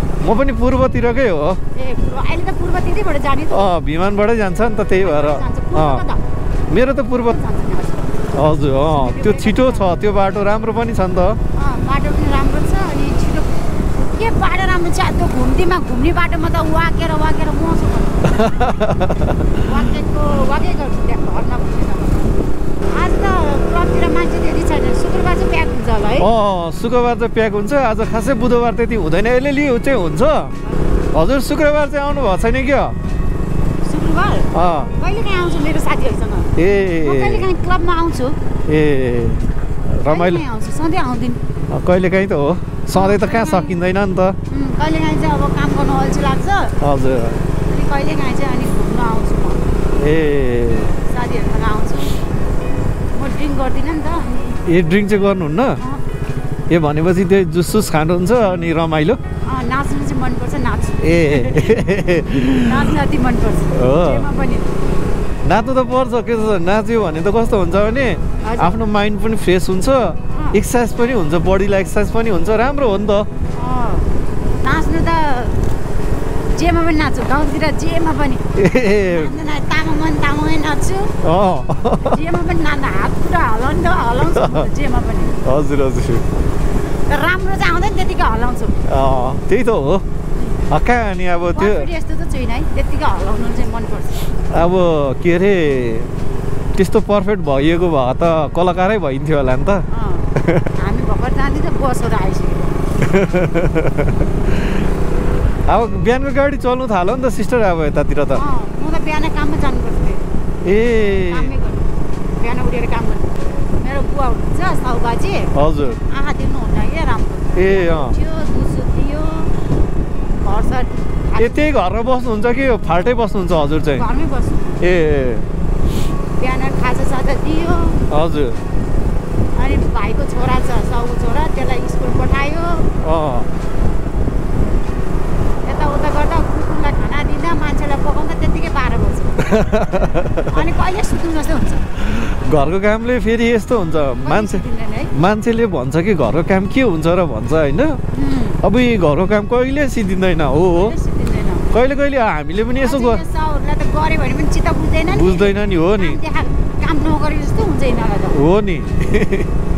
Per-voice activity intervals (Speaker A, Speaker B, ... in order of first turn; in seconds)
Speaker A: 0.2-1.6, 3.5-6.0, 6.7-7.4, 8.3-11.4, 18.3-19.9, 26.2-30.5, 31.1-33.0, 34.5-34.9, 36.6-37.5, 38.7-40.5, 41.7-44.4, 46.8-47.4, 50.0-50.9, 54.7-55.8, 56.7-59.2, 61.0-63.0, 63.7-64.3, 65.5-73.3, 78.6-79.3, 81.2-82.2, 84.2-84.7, 85.4-86.2, 88.9-90.0, 90.7-91.9, 94.5-96.1, 96.8-99.8, 100.4-100.7, 103.0-104.8, 105.7-108.4, 110.6-111.5, 115.5-116.0, 117.5-118.2, 121.4-124.1, 124.8-125.5, 128.1-128.6, 133.0-133.5, 139.4-140.7, 142.0-148.0, 148.6-150.9, 151.7-153.2, 155.1-156.2, 158.3-159.5
Speaker B: 1.7-3.7, 5.0-6.2, 7.2-9.9, 11.6-22.4, 22.9-26.3, 33.8-38.4, 40.1-41.4, 42.9-43.8, 44.5-46.8, 47.6-49.6, 51.0-52.2, 53.1-54.6, 59.5-61.8, 62.5-64.7, 68.4-68.8, 70.3-70.6, 73.6-74.1, 74.6-75.6, 76.5-78.5, 79.0-81.2, 82.0-85.4, 87.1-88.8, 91.5-94.3, 99.9-102.9, 108.3-110.2, 111.3-115.5, 116.1-119.5, 120.4-121.7, 124.0-124.8, 126.4-128.0, 129.6-132.9, 135.7-139.5, 140.5-141.9, 144.2-145.1, 148.1-148.6, 150.7-151.7, 152.8-158.4